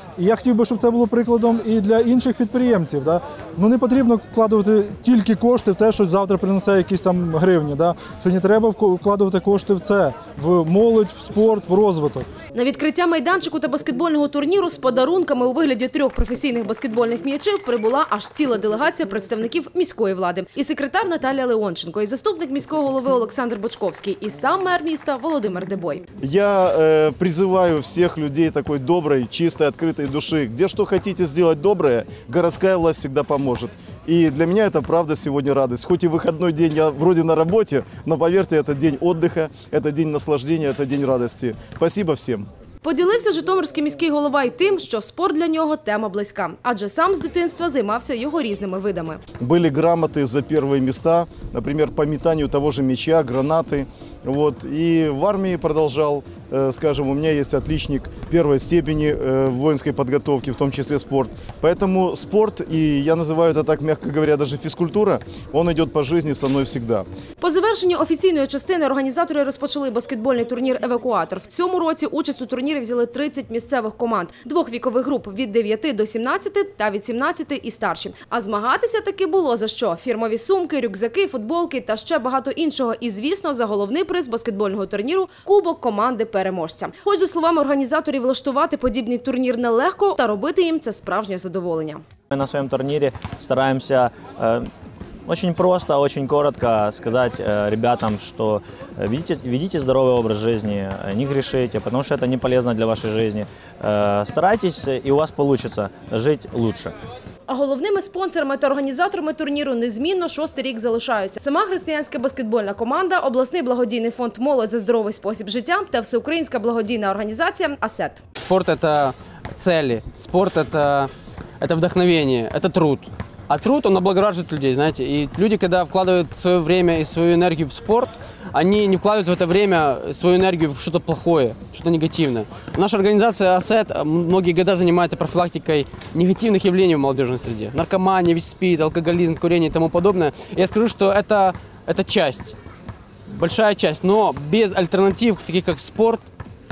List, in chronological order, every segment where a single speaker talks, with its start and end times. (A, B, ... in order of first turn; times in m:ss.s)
0:00.2-0:12.3 A
0:12.5-0:26.0 B
0:26.2-0:42.5 C
0:42.8-0:49.2 B
0:49.4-1:07.0 C
1:07.4-1:32.0 B
1:32.3-1:34.7 D
1:35.2-1:46.9 D
1:47.5-1:58.2 B
1:58.4-2:22.5 E
2:23.3-2:26.3 E